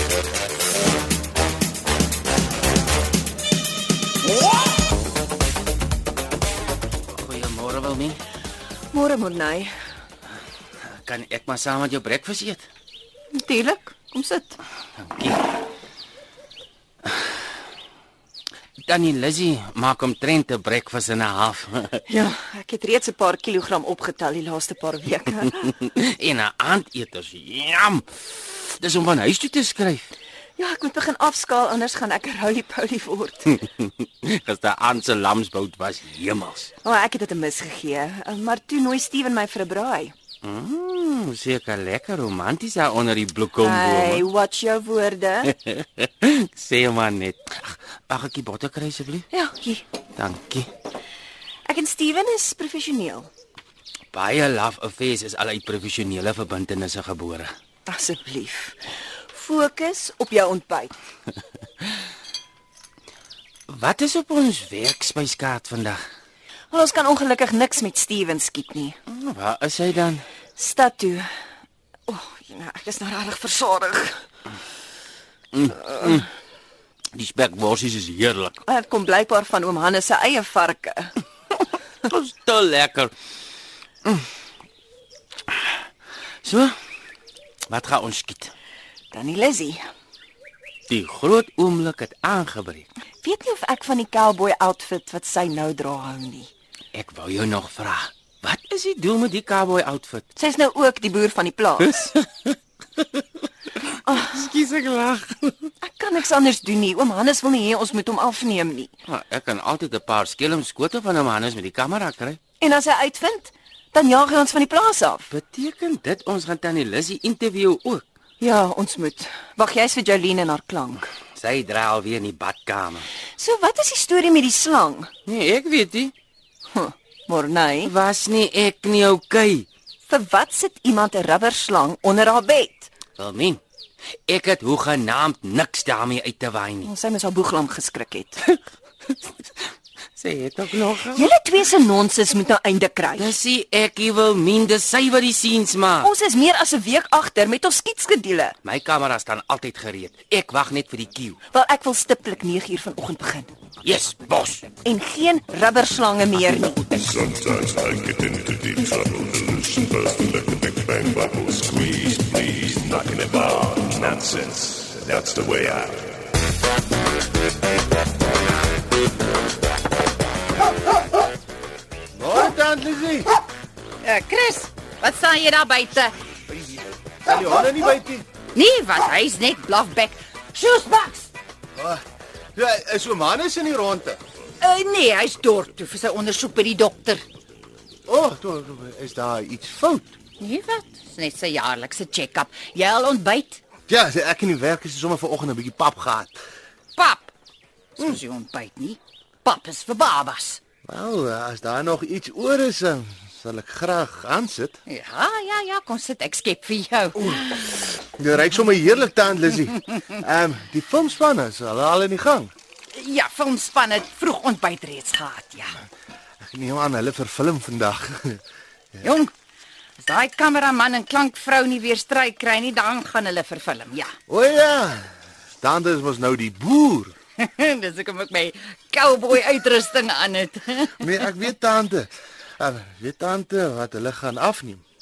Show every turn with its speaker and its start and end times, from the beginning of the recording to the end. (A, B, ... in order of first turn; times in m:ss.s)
0:07.1-0:08.2 A
0:08.9-0:09.7 B
0:10.8-0:12.7 A
0:13.3-0:14.6 B
0:15.0-0:15.4 A
0:17.1-0:17.4 A
0:18.8-0:22.0 A
0:22.1-0:25.7 B
0:25.7-0:30.1 A
0:30.6-0:33.6 B
0:33.6-0:36.7 A
0:36.8-0:40.1 B
0:40.4-0:44.3 A
0:43.6-0:45.5 B
0:45.5-0:49.3 A
0:49.3-0:49.8 B
0:50.2-0:50.7 A
0:51.7-0:53.3 B
0:54.1-0:57.5 A
0:57.9-0:58.8 B
0:59.3-1:00.9 B
1:03.7-1:06.0 A
1:06.7-1:09.0 B
1:09.1-1:10.3 A
1:10.6-1:11.3 B
1:12.1-1:14.2 B
1:15.5-1:16.3 A
1:17.1-1:18.5 A
1:18.6-1:21.1 B
1:22.0-1:23.1 A
1:26.4-1:26.8 A
1:27.7-1:28.5 A
1:29.1-1:29.9 B
1:30.9-1:32.9 A
1:33.2-1:36.5 B
1:36.9-1:40.2 A
1:40.4-1:42.0 B
1:41.8-1:42.6 A
1:43.8-1:45.7 A
1:44.1-1:44.4 B
1:45.8-1:48.9 B
1:49.1-1:52.4 A
1:52.6-1:55.3 B
1:55.3-1:58.0 A
1:58.4-2:01.1 B
2:01.3-2:03.1 A
2:03.4-2:05.1 B
2:05.3-2:06.1 A
2:06.7-2:07.9 B
2:07.8-2:09.7 A
2:10.1-2:12.9 B
2:13.2-2:13.6 A
2:14.3-2:16.9 A
2:16.8-2:18.4 B
2:19.1-2:19.6 A
2:20.2-2:21.3 A
2:21.0-2:23.4 B
2:23.2-2:26.1 A
2:26.0-2:28.6 B
2:28.6-2:31.4 A
2:31.5-2:33.5 B
2:33.8-2:34.7 A
2:34.8-2:37.3 B
2:37.6-2:44.6 C
2:44.1-2:45.9 D
2:45.2-2:45.9 C
2:52.2-2:53.3 D
2:54.0-2:56.1 E
2:56.5-2:58.3 D
2:58.5-3:01.3 E
3:01.8-3:02.0 D
3:02.6-3:04.2 D
3:04.6-3:07.2 E
3:08.1-3:10.2 D
3:10.4-3:13.6 E
3:13.9-3:16.4 D
3:17.0-3:17.3 E
3:18.0-3:20.6 E
3:20.8-3:24.8 D
3:24.9-3:27.7 E
3:27.2-3:32.5 D
3:32.9-3:35.8 E
3:36.4-3:38.4 D
3:39.0-3:39.3 E
3:40.0-3:44.2 E
3:44.3-3:47.1 D
3:47.4-3:51.2 E
3:51.0-3:54.8 D